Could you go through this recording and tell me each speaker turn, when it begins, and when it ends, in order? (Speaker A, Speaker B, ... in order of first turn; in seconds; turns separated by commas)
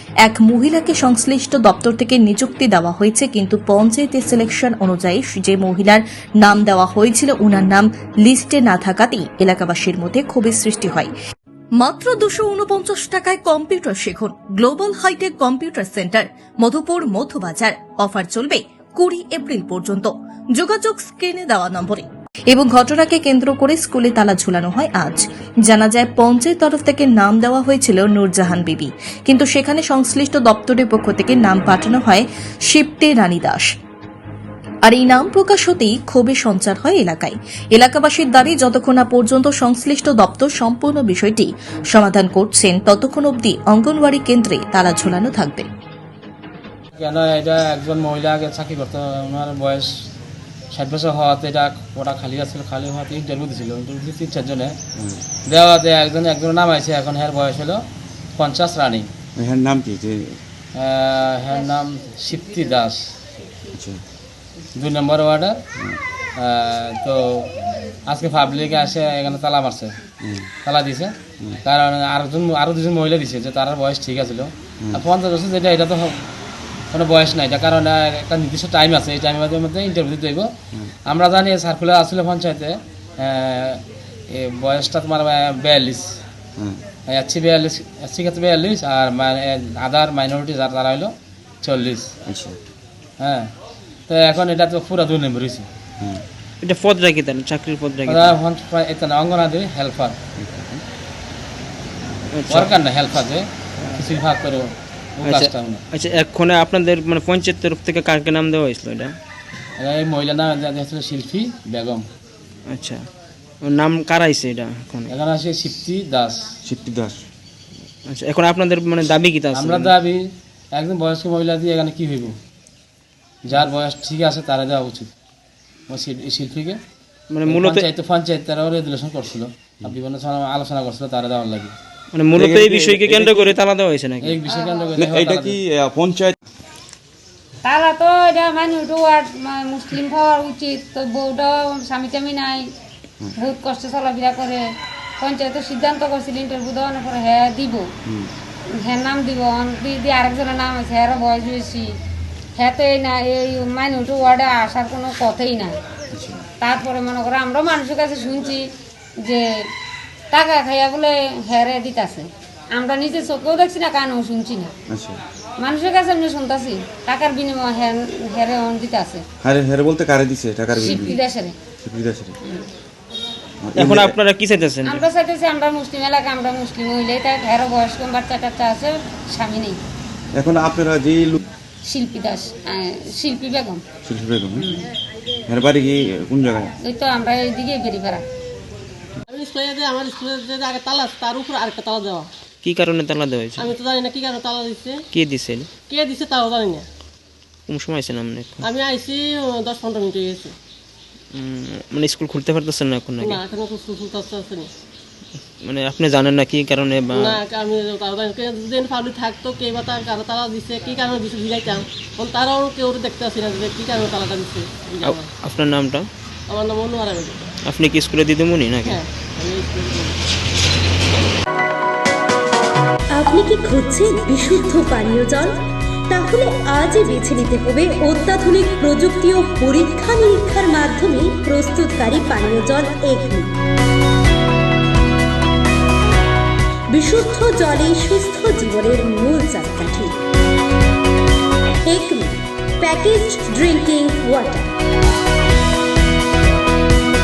Speaker A: 0.2-11.1, Speaker A: 11.8-33.7, Speaker A: 34.9-45.7, Speaker B: 46.9-49.9, Speaker B: 50.7-54.8, Speaker C: 55.0-55.2, Speaker B: 55.5-57.8, Speaker B: 58.4-59.1, Speaker C: 59.4-60.4, Speaker B: 60.8-63.0, Speaker C: 63.7-64.0, Speaker B: 64.8-65.6, Speaker B: 66.4-67.5, Speaker B: 68.1-69.9, Speaker B: 70.6-76.2, Speaker B: 76.9-80.5, Speaker B: 81.1-86.1, Speaker B: 87.1-91.1, Speaker B: 91.6-92.1, Speaker C: 92.2-92.6, Speaker B: 93.2-93.5, Speaker B: 94.1-95.7, Speaker D: 96.6-98.4, Speaker B: 98.0-100.2, Speaker C: 100.4-100.8, Speaker D: 102.3-102.7, Speaker B: 102.5-105.8, Speaker D: 105.2-109.1, Speaker B: 109.8-112.1, Speaker D: 112.7-113.0, Speaker D: 113.6-115.1, Speaker B: 115.1-116.5, Speaker C: 116.6-117.2, Speaker D: 118.1-119.9, Speaker B: 119.5-120.2, Speaker B: 120.7-122.3, Speaker B: 123.5-125.1, Speaker B: 125.9-126.8, Speaker D: 127.3-127.8, Speaker B: 127.4-131.7, Speaker D: 132.1-134.4, Speaker C: 132.3-133.6, Speaker B: 134.2-135.6, Speaker E: 134.4-134.9, Speaker C: 134.9-136.3, Speaker E: 137.6-142.6, Speaker E: 143.3-144.6, Speaker E: 145.2-147.8, Speaker E: 148.8-151.9, Speaker E: 152.6-155.7, Speaker C: 156.1-156.4, Speaker E: 156.6-158.7, Speaker E: 160.3-164.7, Speaker C: 164.9-165.2, Speaker E: 165.6-169.2, Speaker C: 169.4-171.2, Speaker E: 170.8-171.6, Speaker C: 171.8-172.3, Speaker C: 173.6-174.2, Speaker D: 173.8-175.0, Speaker E: 174.8-179.8, Speaker C: 180.3-181.4, Speaker E: 181.8-183.8, Speaker C: 184.0-184.8, Speaker C: 185.5-186.7, Speaker E: 186.8-188.2, Speaker F: 189.3-192.3, Speaker D: 192.6-193.7, Speaker F: 193.6-195.0, Speaker D: 195.1-195.7, Speaker F: 195.9-196.8, Speaker D: 197.7-198.6, Speaker F: 198.6-200.5, Speaker D: 201.3-203.4, Speaker F: 203.2-204.7, Speaker D: 205.6-207.4, Speaker F: 207.1-215.3, Speaker D: 215.0-216.1, Speaker F: 216.5-217.5, Speaker D: 217.7-219.0, Speaker F: 218.8-220.2, Speaker G: 223.1-233.5, Speaker G: 236.9-240.2, Speaker G: 241.8-244.7